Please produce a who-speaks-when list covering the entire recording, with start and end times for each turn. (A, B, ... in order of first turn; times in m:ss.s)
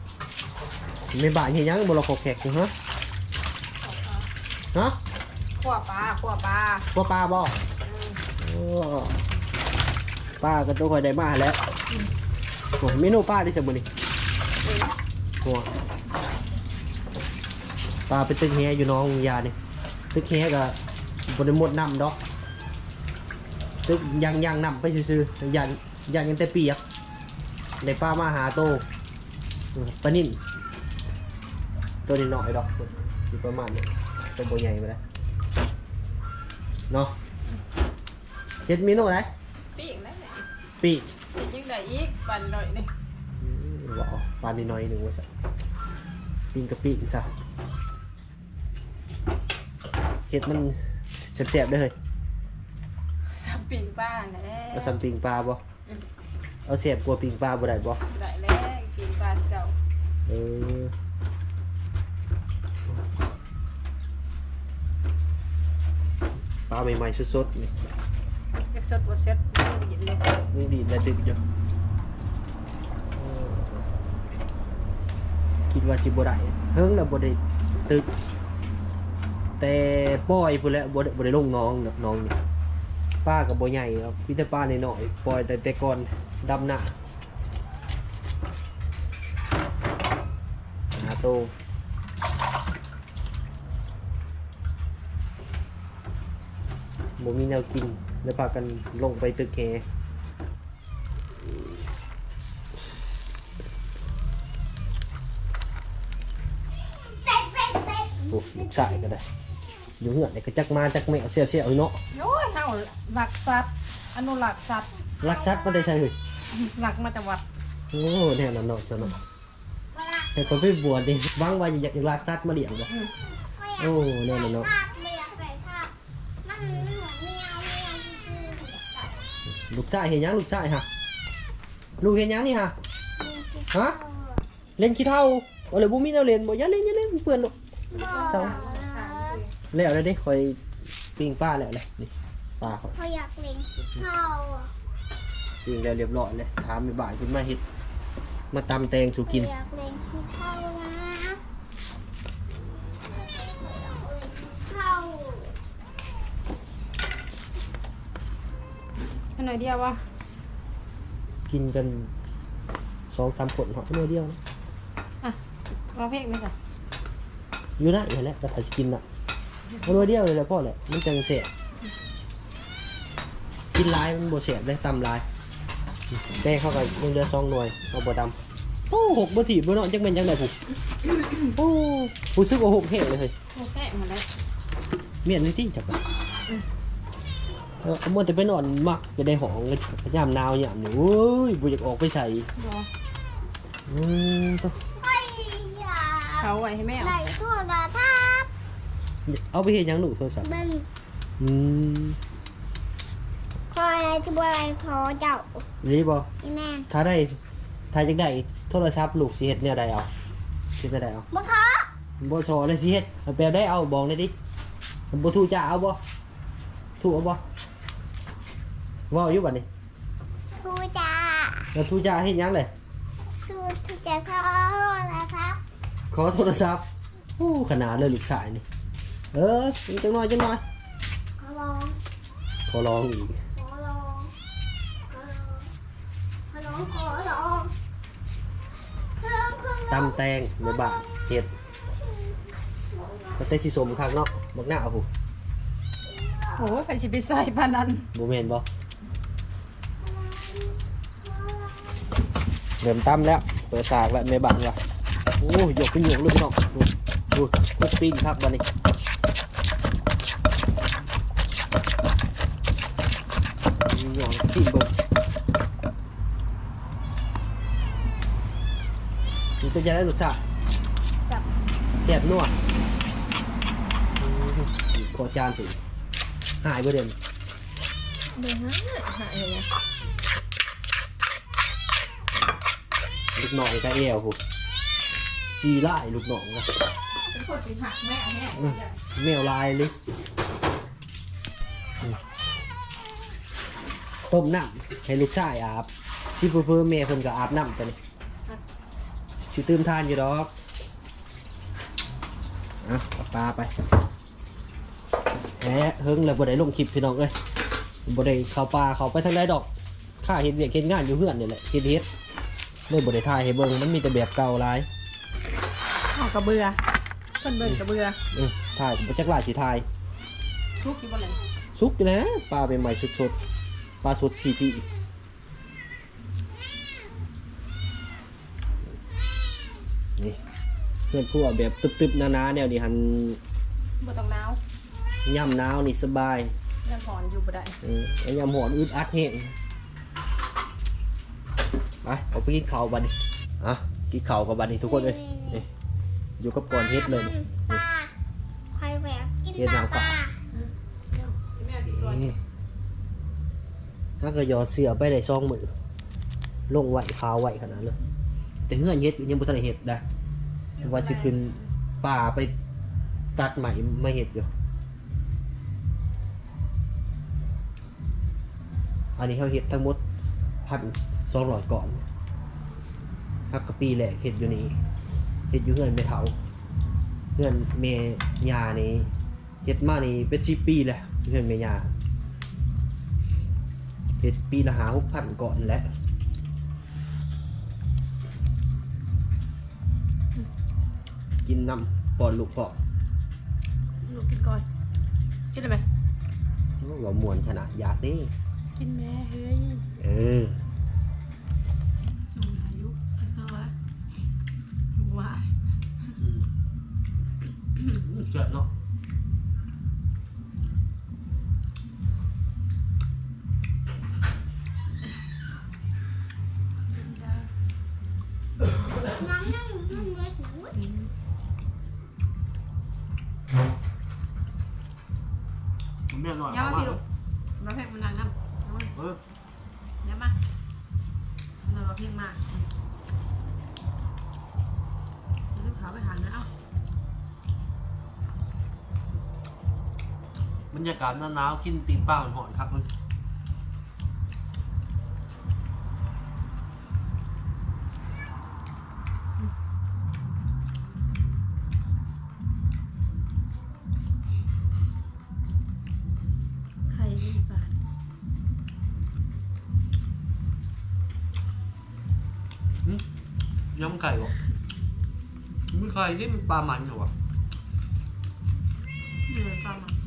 0:01.1-0:02.7 A
0:03.8-0:04.3 B
0:05.6-0:06.9 B
0:06.9-0:07.6 A
0:07.8-0:08.2 B
0:08.4-0:09.2 A
0:10.4-0:11.6 A
0:12.8-0:13.9 A
0:14.6-0:15.0 B
0:15.4-0:15.7 A
0:18.1-0:19.6 A
0:20.1-0:22.2 A
0:23.8-0:26.8 A
0:27.8-0:28.8 A
0:29.7-0:30.4 A
0:32.1-0:35.0 A
0:38.6-0:39.3 A
0:39.8-0:40.5 B
0:40.8-0:41.1 A
0:41.3-0:42.9 B
0:43.4-0:45.3 A
0:46.5-0:47.3 A
0:50.3-0:52.0 A
0:53.3-0:55.0 B
0:54.7-0:55.6 A
0:56.7-0:58.0 A
0:58.1-0:59.8 B
1:00.3-1:00.9 A
1:06.7-1:07.8 A
1:08.5-1:10.4 B
1:10.5-1:11.4 A
1:13.2-1:13.8 A
1:15.7-1:18.1 A
1:19.6-1:22.4 A
1:23.2-1:27.0 A
1:31.0-1:31.6 A
1:37.2-1:39.8 A
1:47.1-1:48.6 C
1:48.3-1:49.2 A
1:50.0-1:52.0 A
1:52.1-1:54.9 B
1:55.2-1:56.2 A
1:55.3-1:55.7 C
1:56.5-1:57.4 B
1:57.9-1:59.2 A
1:59.9-2:00.4 C
2:00.3-2:02.9 A
2:03.4-2:05.9 C
2:03.8-2:04.7 A
2:06.4-2:09.1 C
2:09.7-2:10.9 A
2:12.0-2:12.8 A
2:13.2-2:14.4 C
2:13.7-2:14.0 A
2:14.8-2:17.5 A
2:17.9-2:19.4 C
2:17.9-2:19.5 B
2:18.3-2:18.6 A
2:19.7-2:20.6 A
2:21.2-2:22.9 A
2:22.6-2:24.7 C
2:25.6-2:27.6 A
2:28.5-2:29.5 A
2:29.3-2:31.4 C
2:32.7-2:35.6 C
2:39.4-2:40.0 B
2:41.5-2:42.1 A
2:43.1-2:44.4 A
2:45.2-2:46.6 B
2:47.8-2:49.0 A
2:49.8-2:51.5 A
2:53.7-2:55.2 A
2:56.1-2:58.4 A
2:58.9-3:00.6 A
3:01.4-3:03.3 A
3:03.5-3:04.3 B
3:05.2-3:06.0 A
3:07.8-3:12.5 A
3:12.6-3:12.9 B
3:13.9-3:14.8 A
3:14.9-3:18.5 C
3:16.4-3:17.2 B
3:19.3-3:20.5 A
3:20.4-3:20.9 C
3:21.4-3:22.2 A
3:23.7-3:25.6 C
3:25.8-3:26.3 A
3:26.4-3:26.9 C
3:26.9-3:27.4 A
3:27.9-3:30.1 A
3:30.8-3:31.3 A
3:31.3-3:31.9 C
3:32.2-3:34.3 A
3:35.1-3:36.0 A
3:37.0-3:37.4 A
3:39.1-3:39.7 A
3:40.6-3:41.7 C
3:41.7-3:42.7 A
3:43.4-3:45.6 C
3:46.1-3:46.8 A
3:47.4-3:48.6 A
3:49.3-3:50.6 A
3:51.4-3:52.0 C
3:52.7-3:53.4 A
3:53.6-3:54.3 C
3:55.1-3:55.7 C
3:56.5-3:57.8 C
3:59.2-4:00.2 C
3:59.9-4:01.5 A
4:03.4-4:05.1 A
4:06.1-4:06.8 C
4:06.6-4:08.1 B
4:08.1-4:08.7 A
4:10.0-4:12.2 C
4:12.8-4:14.8 A
4:15.4-4:18.7 A
4:23.8-4:25.0 A
4:29.6-4:30.4 A
4:32.0-4:32.6 A
4:34.2-4:35.8 A
4:36.6-4:37.2 A
4:38.3-4:39.7 B
4:43.4-4:44.4 A
4:45.5-4:46.7 A
4:47.2-4:49.0 B
4:48.6-4:49.9 A
4:54.3-4:58.0 A
4:59.4-5:00.5 A
5:02.8-5:03.7 A
5:05.6-5:07.4 A
5:08.1-5:09.7 A
5:10.2-5:12.1 A
5:12.9-5:14.9 A
5:16.1-5:16.8 B
5:17.4-5:18.2 B
5:17.6-5:19.8 A
5:20.8-5:21.4 B
5:21.8-5:23.4 A
5:24.0-5:24.9 A
5:31.1-5:33.4 A
5:34.0-5:34.6 B
5:35.2-5:36.5 A
5:36.8-5:37.8 B
5:37.8-5:39.6 A
5:42.0-5:45.7 A
5:44.9-5:45.6 C
5:46.4-5:47.8 A
5:46.9-5:48.1 C
5:48.7-5:50.4 C
5:49.6-5:50.2 A
5:50.5-5:52.4 B
5:52.0-5:52.4 A
5:54.2-5:55.7 A
5:56.7-5:58.0 A
5:58.7-6:00.0 A
6:00.7-6:01.6 B
6:00.8-6:02.5 A
6:03.4-6:04.5 A
6:09.2-6:10.0 A
6:10.7-6:12.0 A
6:13.5-6:14.8 A
6:15.5-6:16.4 A
6:17.4-6:19.1 A
6:19.6-6:21.9 A
6:24.2-6:25.9 A
6:31.4-6:32.8 A
6:34.0-6:34.6 B
6:35.5-6:35.8 B
6:36.8-6:38.3 A
6:38.8-6:39.9 B
6:40.0-6:40.6 A
6:42.3-6:43.7 B
6:45.0-6:45.5 B
6:46.2-6:46.4 A
6:47.9-6:48.7 A
6:56.9-6:57.5 B
6:59.1-7:00.8 C
7:00.7-7:01.1 B
7:06.1-7:07.0 A
7:06.5-7:07.0 B
7:07.6-7:08.9 B
7:10.0-7:10.4 B
7:11.6-7:12.7 B
7:15.5-7:16.5 B
7:20.7-7:22.9 A
7:36.9-7:37.8 B
7:43.7-7:44.3 A
7:45.7-7:47.1 A
7:49.3-7:50.0 B